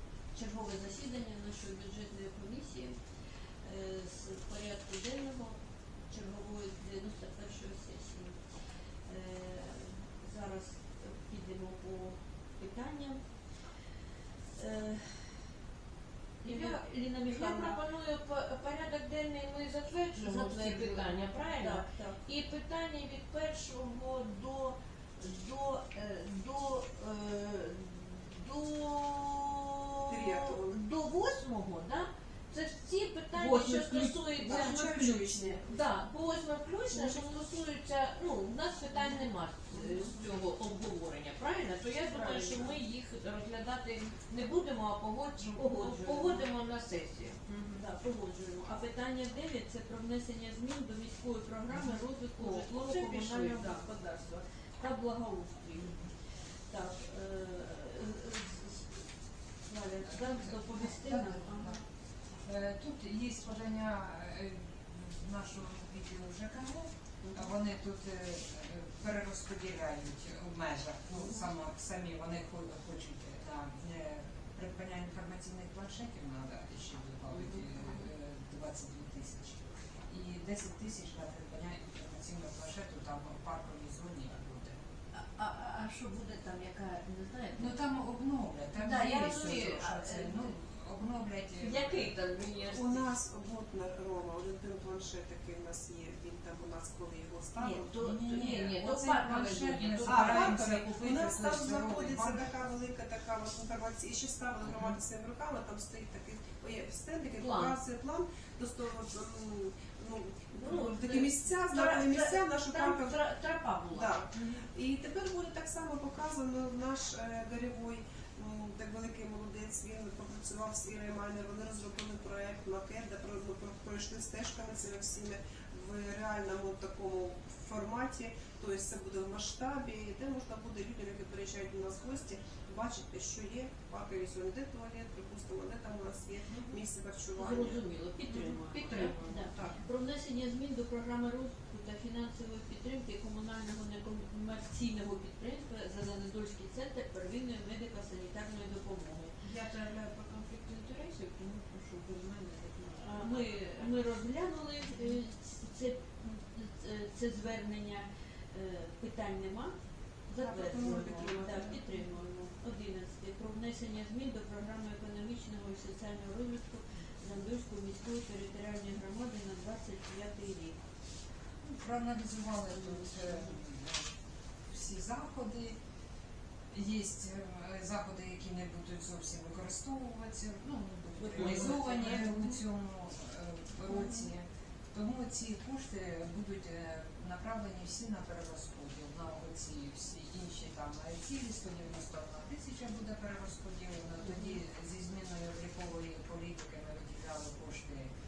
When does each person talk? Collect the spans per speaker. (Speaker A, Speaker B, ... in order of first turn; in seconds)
Speaker A: 0.3-3.0, 3.6-8.5, 9.1-13.2, 14.5-15.5, 16.4-17.8, 20.1-22.2, 33.3-35.7, 36.9-37.4, 39.7-40.1, 42.1-42.8, 45.6-46.5, 47.7-59.1, 59.6-61.8, 137.3-149.4, 152.9-159.8, 160.3-170.8, 172.9-173.2, 181.2-182.5, 183.9-184.3, 194.2-194.5
Speaker B: 16.4-34.9, 35.6-47.8, 51.8-53.9, 85.1-87.8, 88.8-90.5, 91.6-93.0, 97.6-100.6, 107.4-107.8, 110.6-114.6, 138.3-139.8, 149.4-154.0, 160.8-161.1, 181.3-182.3
Speaker C: 30.1-30.8, 34.4-35.7, 92.7-97.9, 100.0-113.3, 113.9-137.8, 160.4-161.7
Speaker D: 60.0-61.9, 62.4-84.8, 87.5-92.2, 98.0-102.7, 171.6-174.1, 174.7-175.8, 176.7-198.1